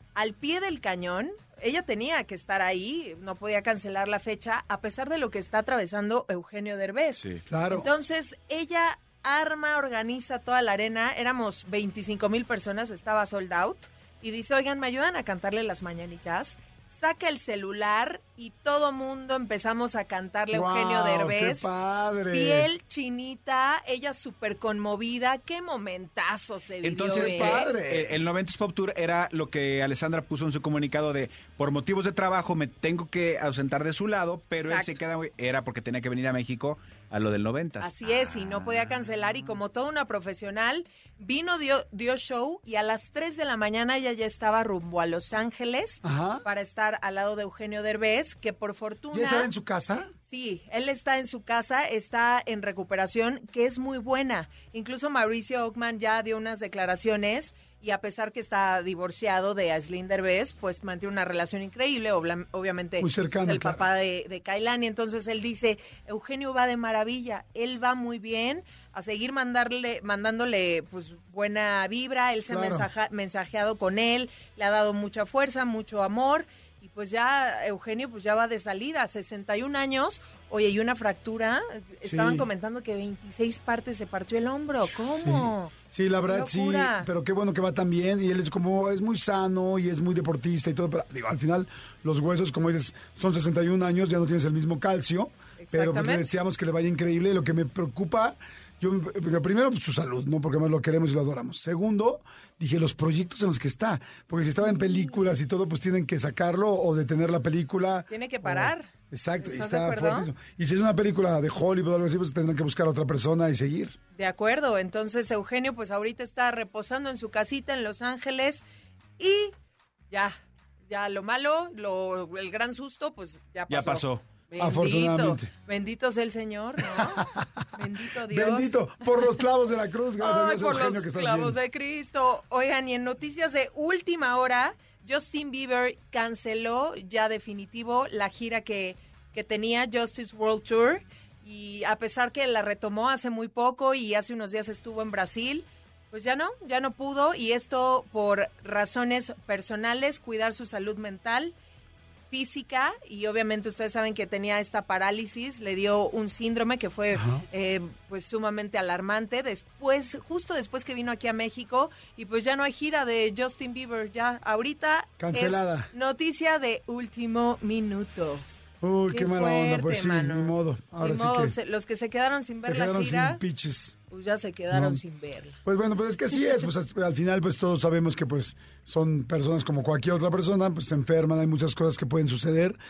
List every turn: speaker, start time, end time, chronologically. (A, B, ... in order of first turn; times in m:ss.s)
0:00.1-0:21.7 A
0:07.5-0:07.9 B
0:20.5-0:22.7 B
0:22.3-0:27.7 A
0:26.8-0:37.9 C
0:27.2-0:28.2 B
0:34.6-0:35.0 A
0:37.8-0:49.5 A
0:46.0-0:46.4 B
0:49.1-0:50.1 B
0:50.3-1:25.7 A
1:03.0-1:03.9 B
1:12.5-1:12.9 B
1:22.0-1:22.5 B
1:25.1-1:53.9 B
1:26.3-1:27.1 A
1:35.6-1:36.3 A
1:44.6-1:45.2 A
1:48.1-1:50.3 A
1:54.1-1:58.6 A
1:59.2-1:59.5 A
2:00.1-2:00.3 A
2:00.9-2:08.8 A
2:03.7-2:04.2 C
2:04.6-2:05.5 B
2:07.0-2:07.6 B
2:08.3-2:11.6 B
2:10.2-2:31.6 A
2:32.3-2:48.4 A
2:37.1-2:37.4 B
2:45.2-2:45.9 B
2:48.8-2:51.6 B
2:49.1-2:53.4 A
2:52.6-2:54.0 B
2:54.1-2:55.6 A
2:54.7-2:55.0 B
2:55.6-3:02.8 B